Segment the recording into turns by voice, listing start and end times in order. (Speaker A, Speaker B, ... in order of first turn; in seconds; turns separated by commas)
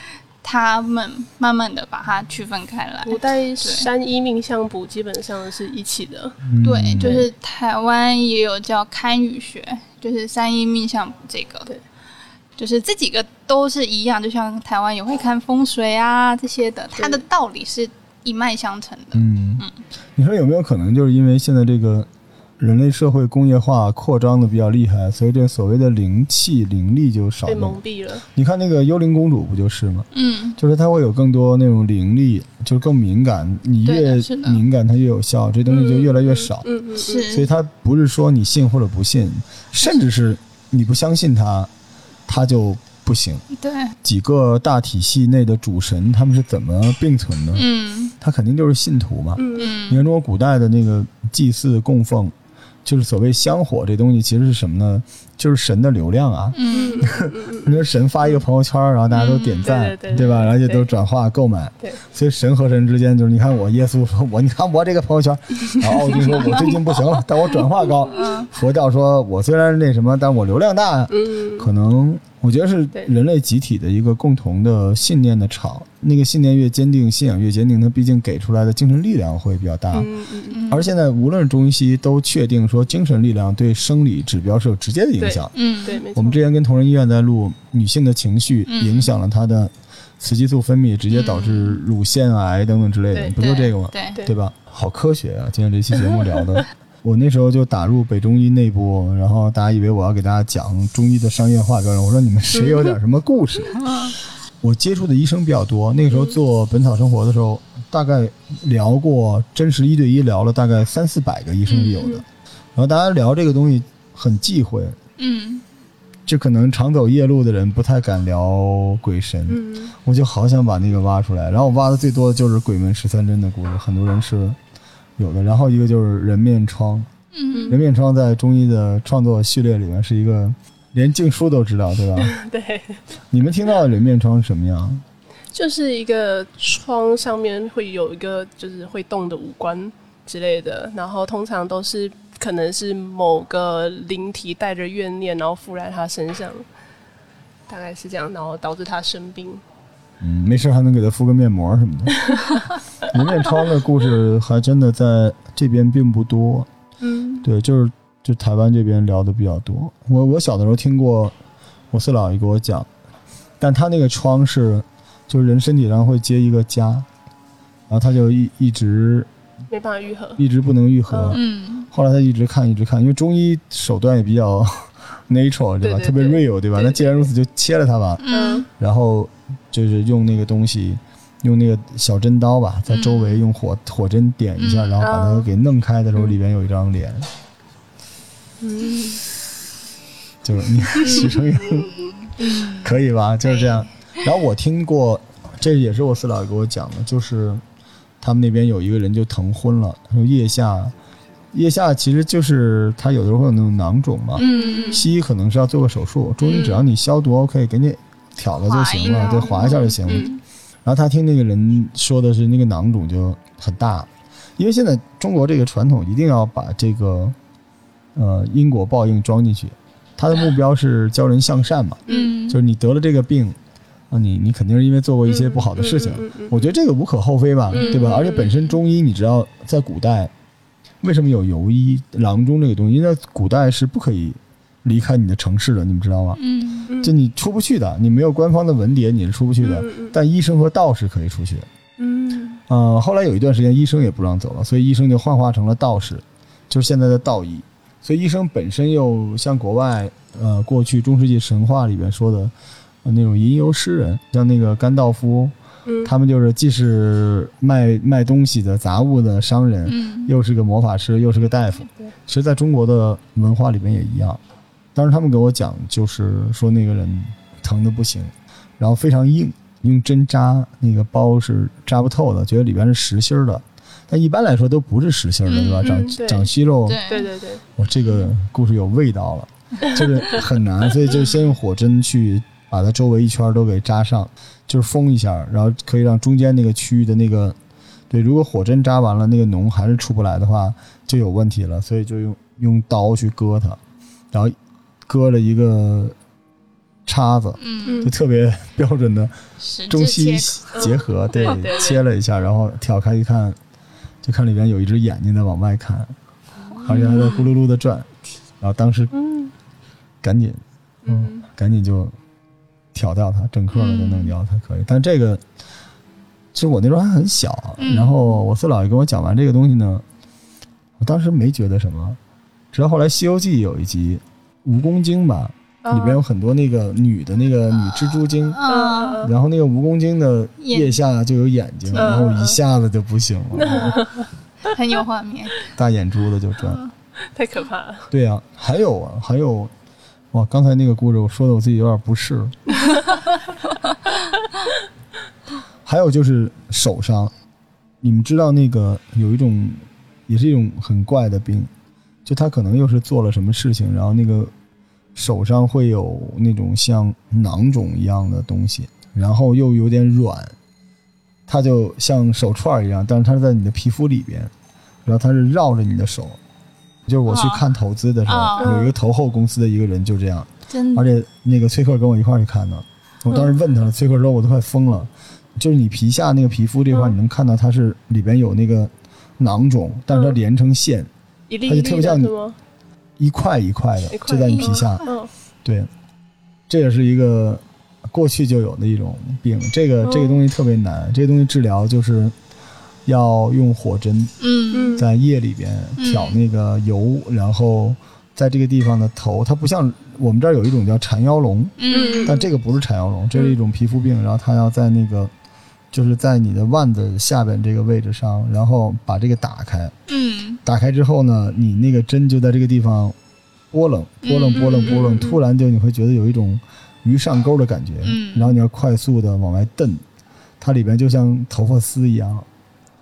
Speaker A: 0.4-3.9, Speaker B: 3.1-6.4, Speaker C: 6.4-7.2, Speaker A: 6.6-11.7, Speaker B: 7.0-7.3, Speaker A: 12.6-19.8, Speaker B: 17.0-17.2, Speaker C: 19.1-19.6, Speaker C: 20.2-22.1, Speaker C: 22.6-27.8, Speaker B: 27.5-28.3, Speaker C: 28.3-36.6, Speaker A: 30.1-30.6, Speaker A: 33.9-34.6, Speaker B: 35.7-37.3, Speaker A: 37.0-37.5, Speaker C: 37.3-41.7, Speaker C: 42.3-43.4, Speaker A: 43.5-43.9, Speaker C: 44.0-47.7, Speaker A: 47.5-48.1, Speaker C: 48.2-52.3, Speaker B: 49.4-49.7, Speaker A: 49.6-50.0, Speaker C: 52.9-80.1, Speaker A: 56.5-57.1, Speaker B: 56.7-57.8, Speaker A: 59.1-59.8, Speaker B: 59.6-60.9, Speaker B: 65.8-67.6, Speaker A: 68.1-68.5, Speaker B: 71.1-71.7, Speaker B: 79.9-80.6, Speaker A: 80.5-80.9, Speaker C: 80.7-85.5, Speaker B: 85.2-86.4, Speaker A: 85.5-86.0, Speaker C: 86.1-104.0, Speaker A: 88.7-89.1, Speaker A: 91.1-91.8, Speaker A: 93.4-94.2, Speaker B: 96.1-96.4, Speaker B: 102.5-103.0, Speaker A: 103.8-104.1, Speaker C: 104.6-115.0, Speaker A: 111.7-112.1, Speaker A: 115.2-115.6, Speaker C: 116.3-124.6, Speaker B: 119.5-119.9, Speaker C: 125.2-127.1, Speaker A: 127.3-127.8, Speaker B: 127.5-127.8, Speaker C: 127.7-132.4, Speaker B: 132.2-133.0, Speaker C: 133.3-135.0, Speaker B: 135.5-146.6, Speaker B: 147.7-149.6, Speaker C: 150.2-152.3, Speaker C: 153.1-156.7, Speaker B: 157.0-157.4, Speaker C: 157.4-161.3, Speaker C: 161.9-162.9, Speaker C: 163.6-167.1, Speaker C: 167.9-169.3, Speaker B: 169.7-170.4, Speaker C: 170.4-187.3, Speaker B: 171.1-171.4, Speaker A: 171.3-171.9, Speaker B: 175.8-177.1, Speaker A: 178.2-178.7, Speaker B: 178.3-178.7, Speaker A: 182.9-183.5, Speaker A: 184.6-185.0, Speaker B: 185.0-185.5, Speaker B: 188.6-189.2, Speaker C: 190.4-197.6, Speaker B: 191.0-191.4, Speaker A: 191.1-192.9, Speaker A: 193.4-194.3, Speaker C: 198.2-200.9, Speaker C: 201.5-210.3, Speaker A: 204.4-205.0, Speaker B: 204.4-205.1, Speaker A: 206.4-206.9, Speaker A: 208.6-210.4, Speaker B: 209.4-210.3, Speaker C: 210.8-217.4, Speaker C: 218.1-223.6, Speaker B: 222.1-222.3, Speaker A: 222.1-222.6, Speaker C: 224.1-230.3, Speaker B: 225.3-226.8, Speaker A: 227.7-228.7, Speaker B: 227.7-228.2, Speaker C: 231.0-236.4, Speaker A: 236.4-236.9, Speaker B: 236.9-237.1, Speaker C: 237.0-241.7, Speaker B: 239.6-240.1, Speaker B: 242.0-242.6, Speaker C: 242.7-252.5, Speaker C: 253.0-264.4, Speaker B: 255.9-256.1, Speaker A: 259.9-260.3, Speaker C: 264.9-277.0, Speaker A: 275.4-276.1, Speaker B: 275.9-276.5, Speaker A: 276.9-277.3, Speaker B: 277.1-277.6, Speaker C: 277.8-287.6, Speaker A: 281.1-281.5, Speaker C: 288.1-293.8, Speaker C: 295.1-296.1, Speaker C: 297.1-299.3, Speaker A: 297.6-298.1, Speaker B: 297.9-298.1, Speaker A: 299.6-300.9, Speaker C: 299.9-303.6, Speaker B: 300.8-302.0, Speaker C: 304.2-306.1, Speaker A: 306.8-307.5, Speaker C: 306.8-308.1, Speaker C: 308.6-309.1, Speaker B: 309.1-309.5, Speaker C: 310.2-312.1, Speaker B: 311.1-311.5, Speaker C: 312.9-315.4, Speaker A: 313.7-314.3, Speaker C: 316.5-320.1, Speaker A: 317.8-318.4, Speaker C: 321.0-322.2, Speaker C: 322.7-328.6, Speaker B: 325.8-326.2, Speaker A: 328.5-329.3, Speaker B: 328.6-329.3, Speaker C: 329.2-334.1, Speaker A: 330.6-331.0, Speaker A: 331.9-332.2, Speaker B: 331.9-332.6, Speaker B: 333.6-334.2, Speaker A: 334.6-335.7, Speaker C: 335.7-336.8, Speaker B: 337.3-338.1, Speaker C: 338.1-339.7, Speaker C: 340.3-342.6, Speaker C: 345.9-347.3, Speaker C: 348.0-351.7, Speaker C: 352.2-354.5, Speaker C: 355.1-360.6, Speaker C: 361.5-364.5, Speaker C: 365.1-366.4, Speaker C: 367.1-381.1, Speaker A: 367.3-367.7, Speaker A: 368.3-368.9, Speaker B: 368.6-368.9, Speaker A: 370.7-371.1, Speaker B: 380.1-380.4, Speaker B: 381.5-382.6, Speaker C: 381.6-382.4, Speaker C: 383.2-385.1, Speaker B: 384.1-385.3, Speaker A: 384.5-385.1, Speaker C: 385.6-385.9, Speaker C: 386.7-392.4, Speaker B: 390.0-390.4, Speaker C: 393.1-394.3, Speaker A: 394.4-395.0, Speaker B: 394.7-395.1, Speaker C: 394.9-405.3, Speaker A: 396.0-396.4, Speaker A: 401.8-402.5, Speaker B: 401.9-402.4, Speaker C: 405.9-409.9, Speaker A: 410.1-410.6, Speaker C: 410.6-413.1, Speaker C: 413.7-420.0, Speaker A: 414.2-415.4, Speaker A: 418.0-418.6, Speaker C: 420.6-422.5